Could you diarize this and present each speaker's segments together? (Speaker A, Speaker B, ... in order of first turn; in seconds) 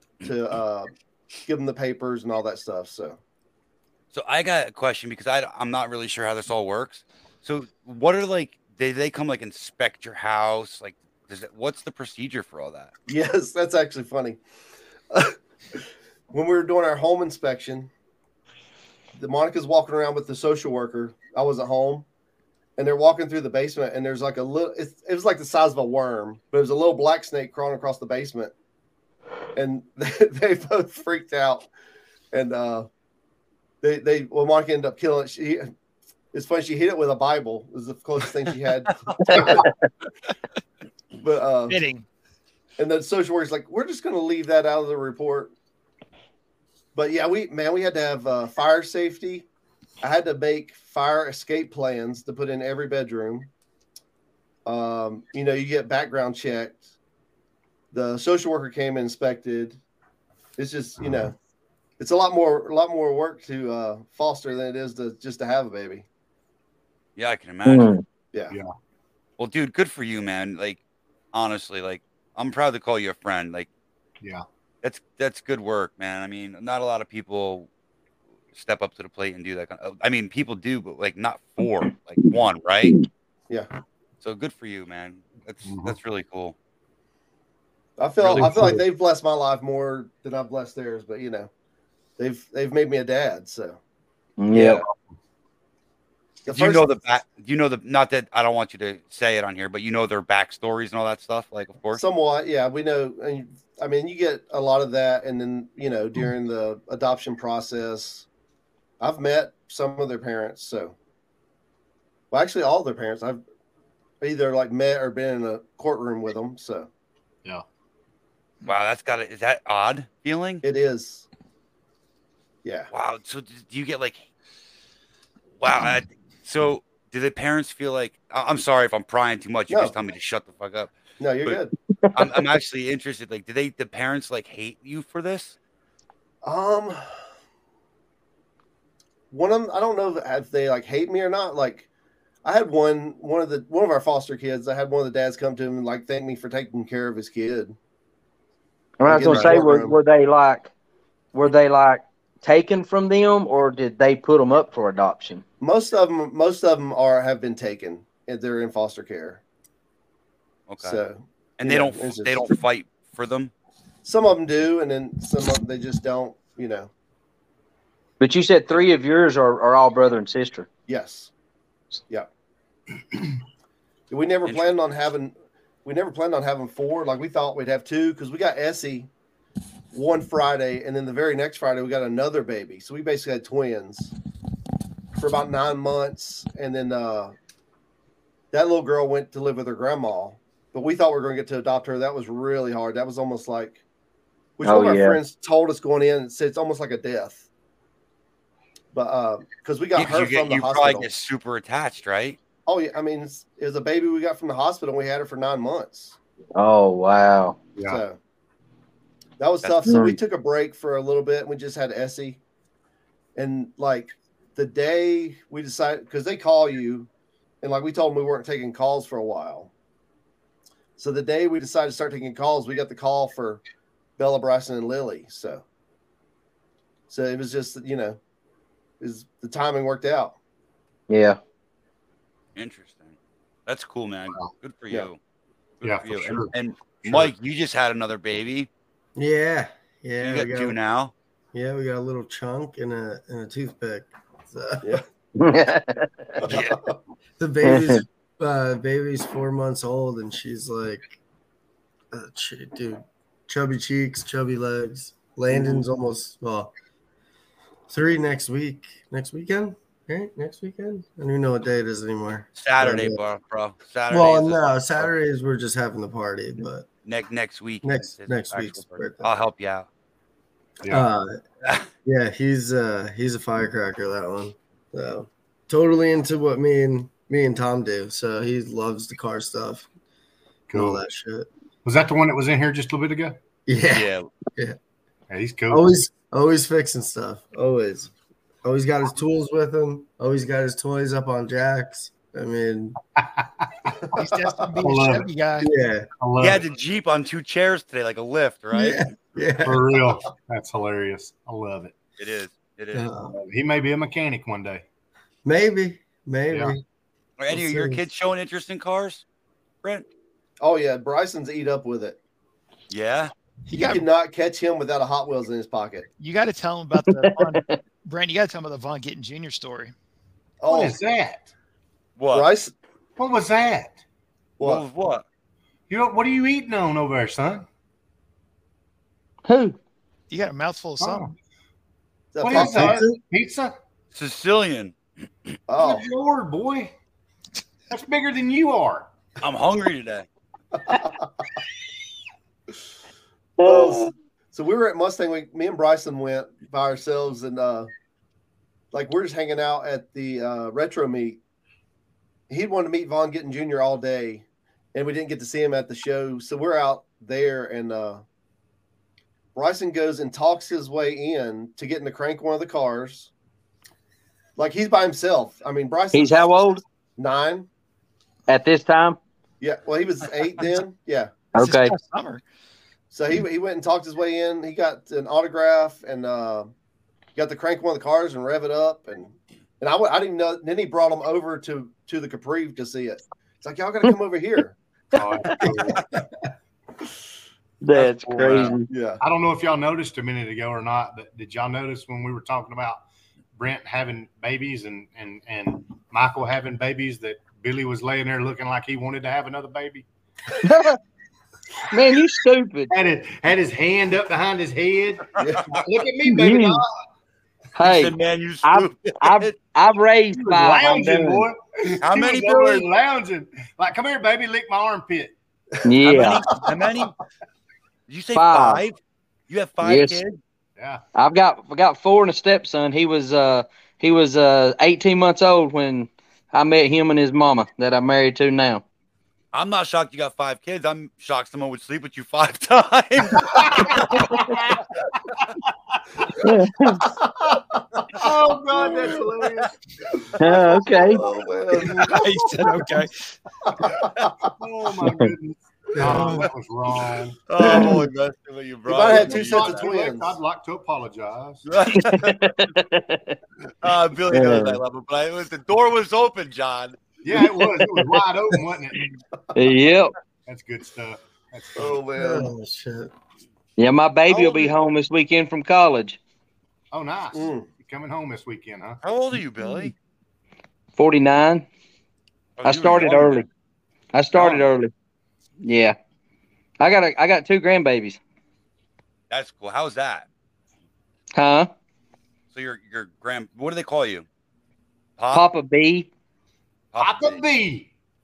Speaker A: 0.2-0.9, 1.4-3.2, 13.1-14.4, 15.1-17.9, 19.1-22.0, 22.8-28.5, 29.5-31.7, 32.3-32.9, 33.8-35.7, 36.3-39.7, 41.2-41.8, 42.8-45.5, 46.9-49.5, 50.0-53.5, 54.6-56.8, 57.9-59.8, 60.6-61.3, 62.0-66.0, 88.0-91.5, 92.2-93.8, 94.5-94.8, 96.5-96.8, 102.0-108.2, 109.0-110.9, 112.3-113.4, 114.2-116.9, 120.6-121.2, 122.6-122.9, 129.7-129.9, 131.2-131.7, 136.4-137.2, 139.3-141.8, 142.4-147.8, 149.1-149.9, 155.6-159.4, 160.8-162.5, 164.0-166.9, 170.9-171.3, 174.1-175.3, 175.8-179.1, 179.9-184.1, 185.1-187.3, 188.5-193.8, 194.6-197.4, 198.9-201.1, 202.7-206.2, 207.8-208.2, 209.4-212.4, 213.3-217.1, 217.6-219.7, 221.0-223.6, 224.2-225.6, 227.1-228.2, 229.0-230.3, 246.4-246.8, 294.2-294.7, 310.6-312.2, 313.7-316.1, 320.6-321.0, 322.3-322.7, 332.3-333.0, 335.7-336.1, 343.6-347.9, 348.9-351.4, 352.5-358.2, 359.5-363.3, 364.6-366.5, 367.2-367.7, 369.6-371.3, 373.1-376.7, 377.4-384.8, 387.9-389.2, 405.4-405.8, 416.8-417.1, 437.0-439.2, 440.3-442.2, 443.6-444.5, 447.6-448.0, 448.9-450.4, 461.7-462.5, 467.3-467.7
Speaker B: 4.1-12.9, 67.2-67.9, 69.4-70.8, 71.3-73.7, 74.8-77.7, 78.5-83.0, 84.2-86.5, 96.5-102.0, 118.6-120.6, 122.9-124.2, 125.6-131.6, 132.1-135.6, 160.7-161.0, 161.6-163.5, 199.9-202.4, 232.6-233.1, 233.7-235.2, 235.8-238.7, 240.2-241.1, 246.4-246.8, 262.6-265.1, 267.0-269.9, 283.9-284.3, 296.4-299.0, 302.2-303.1, 307.4-309.2, 312.9-313.3, 322.2-322.5, 324.6-325.2, 334.1-334.9, 339.4-340.2, 388.4-388.7, 407.8-409.5, 412.0-412.9, 416.0-417.1, 418.1-418.9, 419.5-420.4, 429.5-434.7, 447.5-449.8, 451.6-452.5, 453.8-457.0, 464.3-464.7, 469.0-469.9, 472.6-473.4, 479.3-480.2, 482.5-484.2, 485.2-485.4, 486.9-487.4
Speaker C: 39.3-39.6, 67.6-68.0, 94.4-94.8, 131.9-132.3, 149.0-150.7, 151.3-155.4, 168.2-170.7, 194.6-195.2, 206.6-207.6, 209.8-210.2, 231.1-231.4, 245.4-246.3, 247.7-248.0, 317.0-317.8, 329.5-329.8, 343.6-344.1, 366.1-366.8, 368.5-369.2, 371.5-371.9, 387.8-388.9, 400.6-401.0, 401.9-402.9, 406.2-406.8, 407.8-411.5, 415.8-416.4, 418.3-418.8, 419.8-420.2, 421.1-428.8, 436.4-437.0, 440.4-441.2, 451.9-453.4, 454.3-454.8, 459.5-460.1, 463.8-466.2, 471.0-471.6, 472.6-473.5, 474.1-474.9, 475.6-475.9, 476.8-478.2, 481.4-481.7, 485.3-486.1
Speaker D: 41.7-42.0, 294.1-295.7, 313.7-314.0, 316.2-319.9, 330.3-331.3, 371.6-372.4, 441.9-443.3
Speaker E: 85.6-86.0, 88.2-88.8, 207.8-208.0, 235.8-236.5, 237.0-237.3, 270.8-271.1, 280.7-281.0, 281.8-283.4, 285.3-285.9, 293.2-293.7, 294.8-295.3, 296.2-296.6, 299.6-301.9, 303.3-304.8, 320.7-321.5, 323.2-324.0, 325.9-327.6, 331.0-331.3, 332.4-333.7, 335.8-336.9, 337.9-339.1, 385.1-386.0, 389.2-393.0, 393.6-400.1, 402.9-406.9, 410.3-415.3, 420.8-421.0, 433.4-434.8, 435.4-436.3, 438.2-439.7, 441.8-442.6, 444.6-447.4, 449.0-451.6, 457.2-459.1, 460.4-462.0, 466.9-469.0, 487.0-487.9
Speaker F: 239.2-240.8, 241.5-245.0, 247.4-251.2, 252.1-256.7, 257.9-263.2, 264.1-266.9, 267.8-269.3, 270.9-271.4, 272.0-279.9, 280.7-281.5, 283.6-284.8, 285.7-288.1, 288.6-293.0, 295.6-296.1, 298.7-300.0, 302.9-303.4, 305.4-306.8, 307.5-308.0, 332.5-333.2, 446.0-446.4, 462.1-463.1